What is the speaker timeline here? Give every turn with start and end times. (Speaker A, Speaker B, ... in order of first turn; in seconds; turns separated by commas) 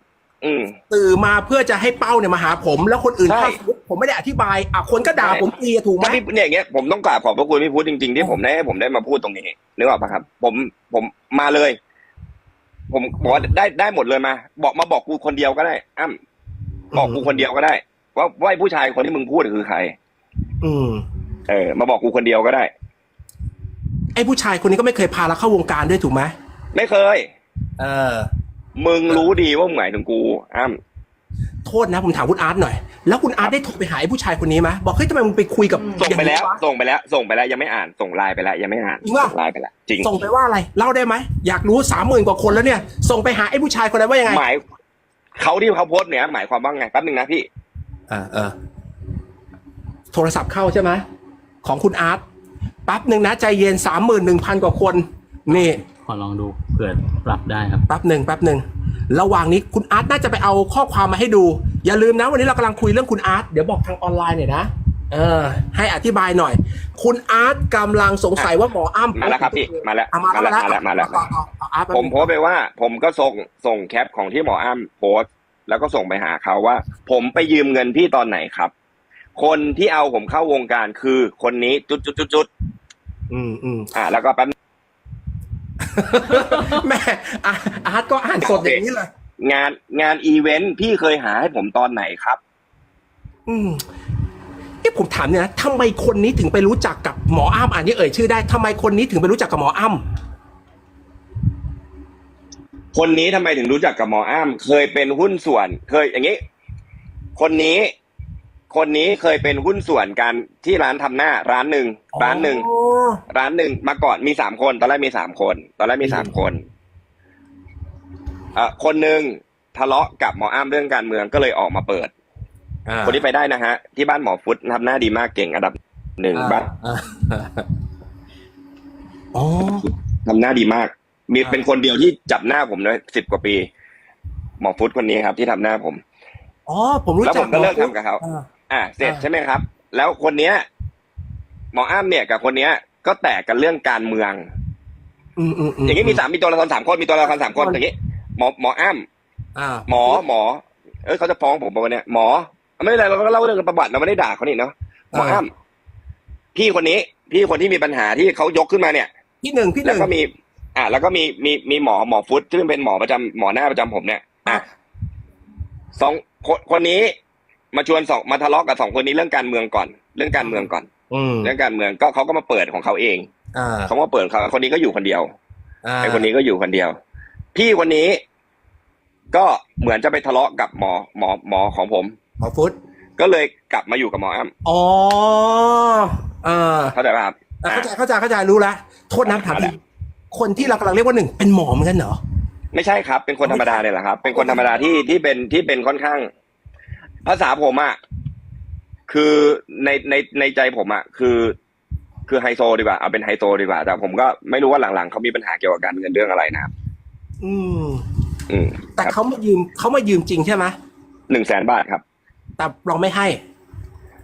Speaker A: 0.4-0.8, Speaker B: 0.9-6.2, Speaker A: 3.3-3.6, Speaker A: 6.0-11.8, Speaker A: 12.9-16.2, Speaker A: 16.9-19.9, Speaker B: 16.9-17.4, Speaker B: 20.6-21.0, Speaker A: 21.5-22.7, Speaker B: 24.1-26.3, Speaker A: 26.7-27.3, Speaker B: 27.8-28.3, Speaker A: 28.8-30.8, Speaker B: 31.6-36.6, Speaker A: 36.0-40.1, Speaker B: 39.0-39.3, Speaker B: 40.0-44.4, Speaker A: 44.3-44.6, Speaker A: 45.4-47.5, Speaker B: 48.1-48.5, Speaker B: 50.1-51.0, Speaker B: 51.6-52.2, Speaker B: 52.9-55.8, Speaker C: 55.5-57.8, Speaker B: 57.9-72.3, Speaker A: 69.2-71.3, Speaker A: 71.9-78.7, Speaker A: 79.3-82.5, Speaker B: 83.3-83.9, Speaker A: 83.9-84.5, Speaker B: 85.8-89.1, Speaker A: 88.4-88.8, Speaker A: 89.4-92.4, Speaker B: 93.5-93.8, Speaker B: 94.8-100.0, Speaker A: 102.9-106.4, Speaker A: 107.3-107.9, Speaker A: 108.7-112.6, Speaker B: 112.1-113.2, Speaker A: 113.3-116.6, Speaker B: 116.0-116.3, Speaker A: 118.5-122.1, Speaker B: 122.9-123.2, Speaker A: 123.0-126.7, Speaker B: 126.3-127.6, Speaker B: 129.3-129.8, Speaker A: 130.2-133.7, Speaker A: 134.6-136.0, Speaker B: 136.7-138.4, Speaker A: 137.2-140.7, Speaker A: 141.7-144.4, Speaker B: 145.4-146.2, Speaker A: 145.8-149.0, Speaker B: 147.2-147.8, Speaker B: 149.6-150.2, Speaker A: 149.9-155.5, Speaker B: 155.1-155.4, Speaker A: 156.5-159.1, Speaker B: 159.4-160.1, Speaker A: 159.8-164.6, Speaker A: 165.9-167.1, Speaker A: 167.7-170.9, Speaker B: 170.4-171.5, Speaker A: 171.4-173.3, Speaker B: 173.5-173.9, Speaker A: 173.9-175.3, Speaker B: 175.8-176.3, Speaker A: 176.0-177.0, Speaker A: 177.5-178.2, Speaker A: 179.3-182.1, Speaker B: 182.4-182.7, Speaker A: 183.2-184.5, Speaker B: 184.6-186.9, Speaker A: 186.9-187.9, Speaker B: 187.6-189.8, Speaker A: 189.2-189.7, Speaker B: 190.3-192.2, Speaker A: 192.7-196.3, Speaker B: 193.4-194.8, Speaker A: 197.2-198.0, Speaker A: 199.1-201.5, Speaker A: 202.3-206.7, Speaker B: 207.4-208.0, Speaker A: 208.5-209.2, Speaker B: 209.0-210.7, Speaker A: 211.3-212.0, Speaker B: 212.6-213.4